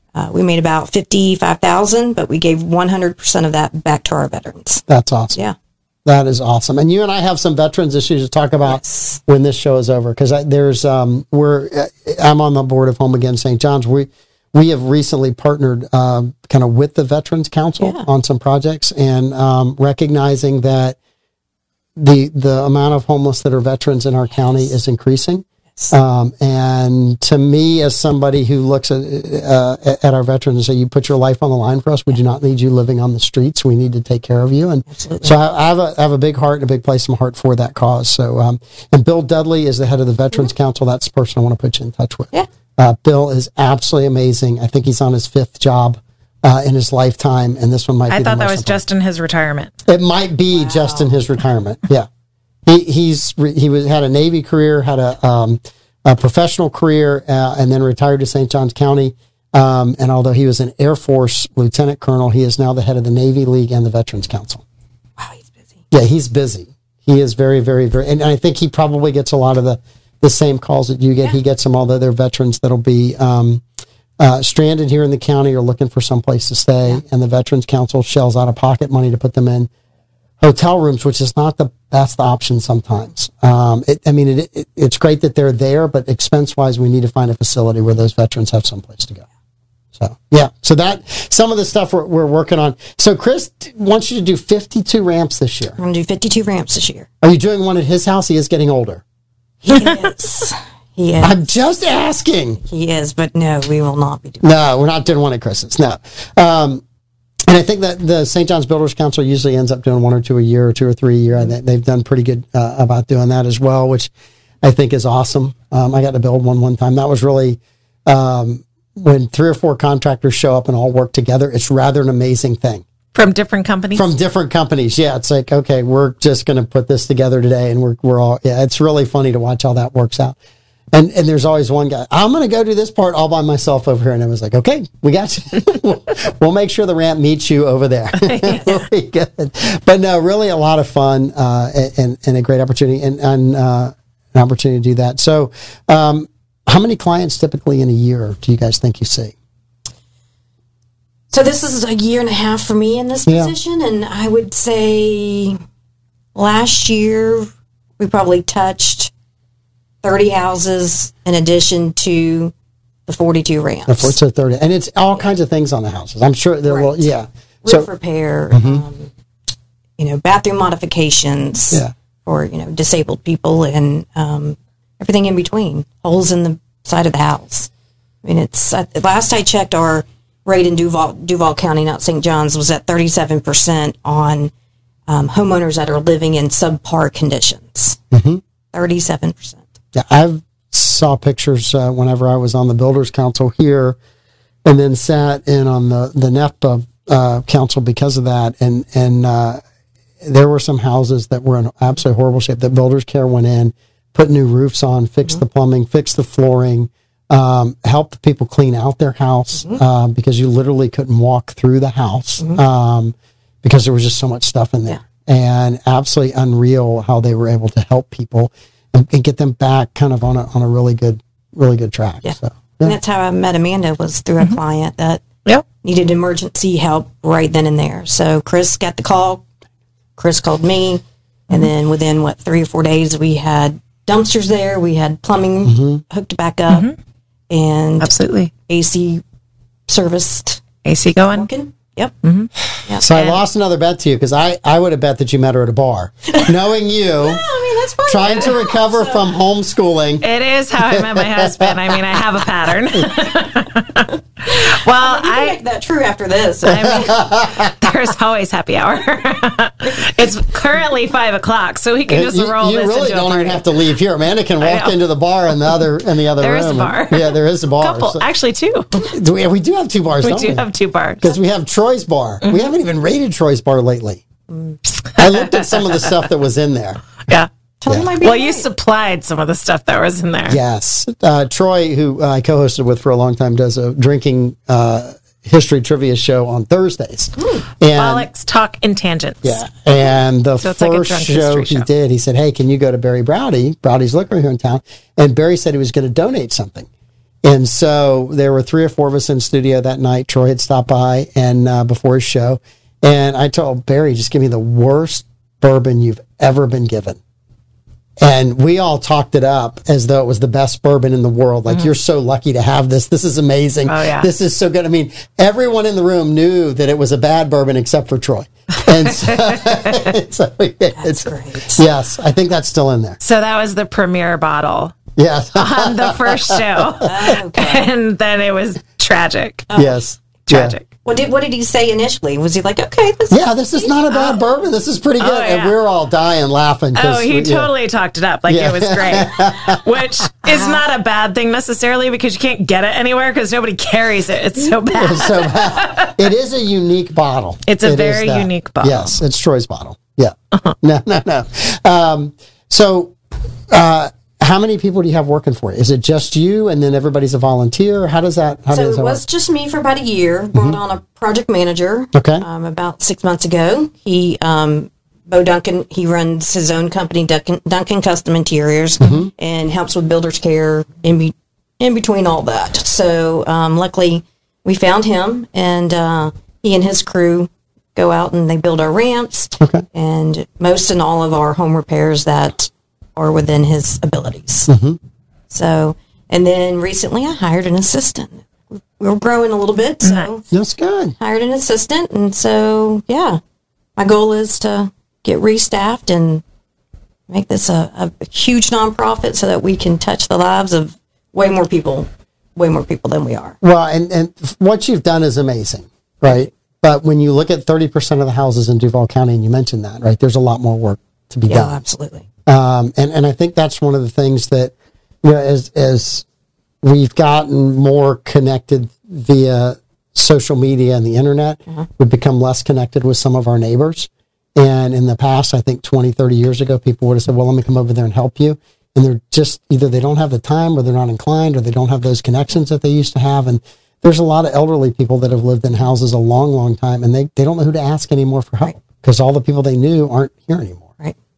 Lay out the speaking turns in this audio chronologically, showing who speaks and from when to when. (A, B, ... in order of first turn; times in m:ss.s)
0:00.2-0:05.6 A
0:04.9-0:05.4 B
0:06.1-0:21.0 B
0:08.6-0:09.2 A
0:17.8-0:18.1 A
0:22.0-0:48.8 B
0:34.9-0:35.4 A
0:48.1-0:49.7 C
0:49.9-0:52.1 B
0:50.5-0:51.2 A
0:52.7-1:04.6 B
1:05.2-1:05.8 A
1:05.9-1:13.6 B
1:14.2-1:19.7 B
1:20.4-1:29.3 B
1:30.0-1:35.8 B
1:35.8-1:37.1 A
1:37.2-1:39.0 B
1:39.6-1:41.4 A
1:41.2-1:42.6 B
1:42.6-1:44.5 A
1:44.4-1:46.8 B
1:47.5-1:54.1 B
1:54.6-2:02.8 B
2:03.1-2:04.1 C
2:03.9-2:10.4 B
2:10.9-2:29.4 B
2:18.2-2:18.7 C
2:31.3-2:35.6 A
2:33.3-2:33.5 B
2:36.4-2:39.1 A
2:40.0-2:42.5 A
2:43.1-2:44.2 A
2:43.9-2:47.9 B
2:46.7-2:47.1 A
2:47.6-2:49.1 A
2:48.5-2:48.8 B
2:50.0-2:57.7 A
2:58.2-3:04.5 A
3:05.1-3:08.0 A
3:08.1-3:08.4 B
3:08.7-3:09.6 A
3:10.0-3:14.0 B
3:14.6-3:19.6 B
3:20.2-3:43.0 B
3:42.2-3:45.2 A
3:45.8-3:49.4 A
3:50.2-3:56.9 A
3:55.6-3:56.0 B
3:56.7-3:57.0 C
3:57.5-3:58.1 A
3:58.0-3:58.5 C
3:58.7-3:59.2 A
3:59.9-4:00.6 A
4:00.8-4:01.5 C
4:01.3-4:02.2 A
4:02.2-4:02.5 C
4:03.0-4:07.5 B
4:03.0-4:03.4 C
4:07.2-4:09.2 A
4:08.1-4:10.3 B
4:10.2-4:15.6 C
4:10.8-4:12.0 B
4:14.5-4:17.1 A
4:16.7-4:23.7 C
4:16.7-4:17.8 B
4:22.1-4:28.2 B
4:24.6-4:25.0 C
4:26.4-4:29.1 C
4:29.0-4:30.6 B
4:30.2-4:31.3 C
4:31.2-4:34.2 B
4:34.5-4:34.8 A
4:35.1-4:35.8 C
4:35.2-4:37.0 B
4:37.8-4:38.7 A
4:38.2-4:40.6 C
4:40.5-4:48.3 B
4:47.4-4:47.7 A
4:47.9-4:49.8 C
4:49.4-4:56.9 B
4:50.6-4:51.9 C
4:57.4-5:07.2 B
5:08.2-5:23.2 B
5:13.9-5:14.3 C
5:19.1-5:20.1 C
5:21.0-5:21.8 A
5:23.2-5:25.0 C
5:25.2-5:27.1 B
5:25.6-5:29.7 C
5:27.0-5:27.9 A
5:29.7-5:30.0 A
5:29.8-5:30.8 B
5:30.4-5:30.9 C
5:31.0-5:33.9 A
5:33.3-5:37.7 B
5:35.2-5:35.7 C
5:37.0-5:46.2 C
5:38.5-5:39.9 B
5:40.4-5:40.7 B
5:44.9-5:53.2 B
5:47.7-5:49.2 C
5:53.7-5:59.2 B
5:58.7-6:24.7 A
6:02.1-6:02.4 B
6:09.0-6:09.3 B
6:19.6-6:19.8 B
6:24.7-6:25.0 B
6:25.5-6:30.5 A
6:30.0-6:30.3 C
6:30.5-6:31.2 B
6:31.2-6:33.4 A
6:34.0-6:36.4 A
6:37.3-6:43.6 A
6:43.6-6:51.8 B
6:51.5-6:52.3 A
6:52.5-6:56.2 B
6:56.8-7:20.9 B